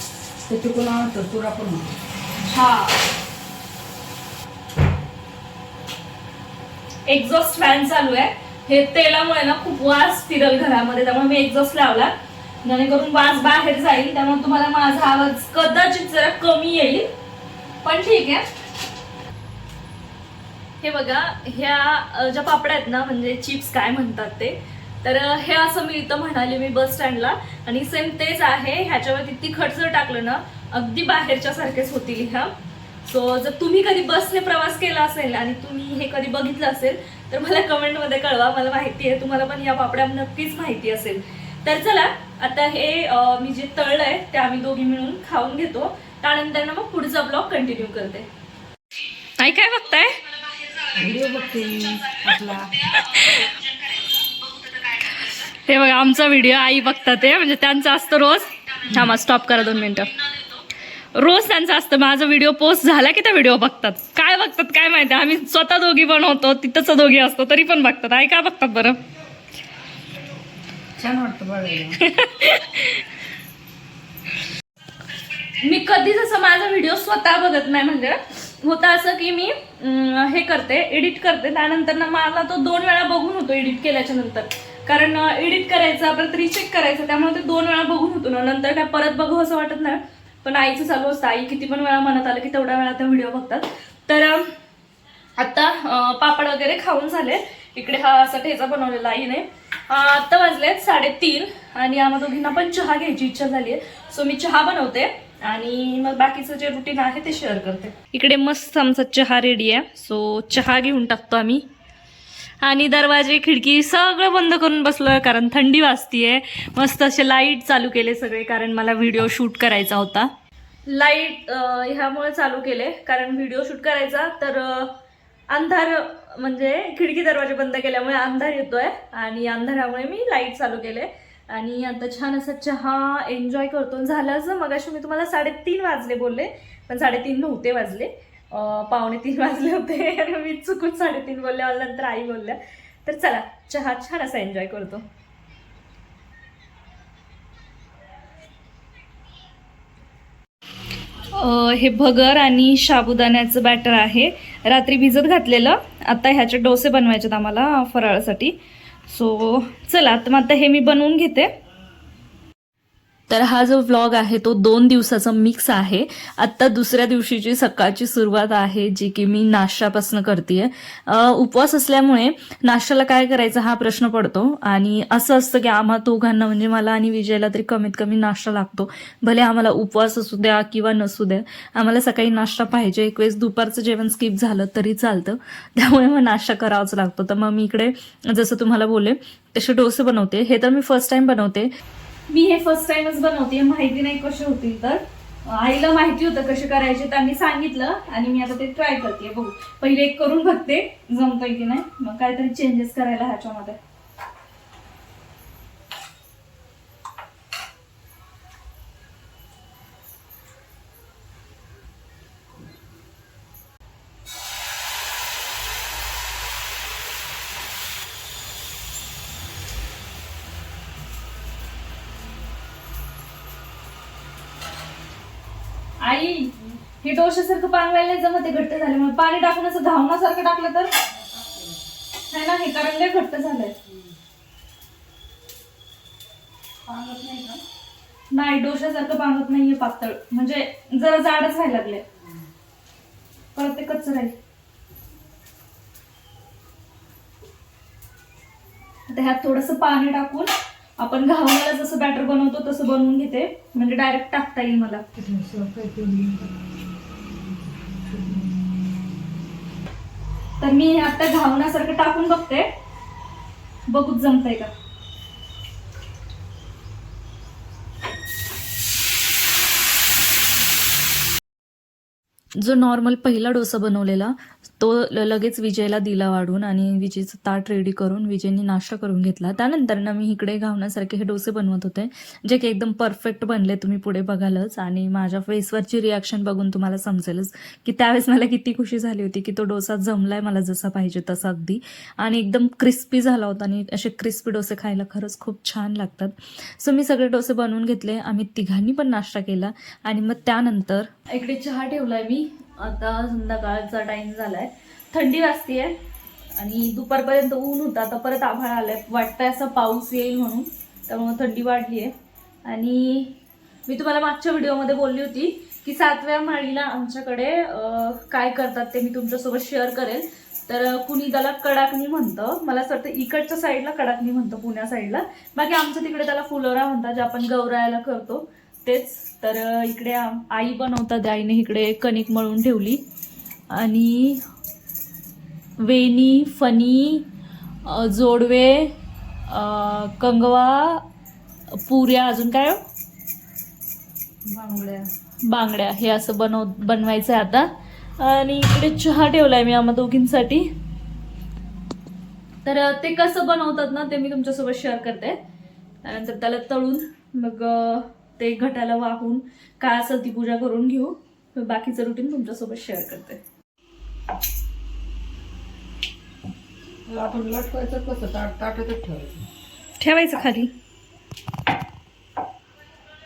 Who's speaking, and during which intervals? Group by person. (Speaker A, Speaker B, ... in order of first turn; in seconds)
Speaker A: 0.5-1.9, 50.9-52.8, 58.9-59.1, 71.0-72.0, 231.3-231.7, 233.9-234.1, 236.9-237.6, 255.2-256.5, 258.1-258.5, 344.4-345.1, 367.1-369.4
Speaker B: 2.4-3.0, 7.1-12.1, 12.6-17.1, 17.8-18.4, 20.8-32.5, 33.0-48.3, 49.4-51.3, 52.1-60.5, 61.1-69.0, 72.0-73.0, 75.6-94.5, 95.4-111.7, 112.6-120.3, 120.9-124.9, 125.5-145.1, 151.3-158.5, 159.1-161.5, 163.3-191.7, 192.3-203.8, 226.0-230.9, 232.3-233.7, 238.3-242.0, 243.5-244.3, 249.1-255.0, 260.6-262.7, 263.9-264.7, 272.6-305.9, 306.6-312.1, 312.6-313.4, 313.9-333.0, 333.7-334.4, 335.9-337.2, 337.9-338.9, 339.5-341.0, 341.9-342.8, 345.5-347.7, 348.2-350.6, 352.6-355.4, 356.0-363.4, 370.0-370.7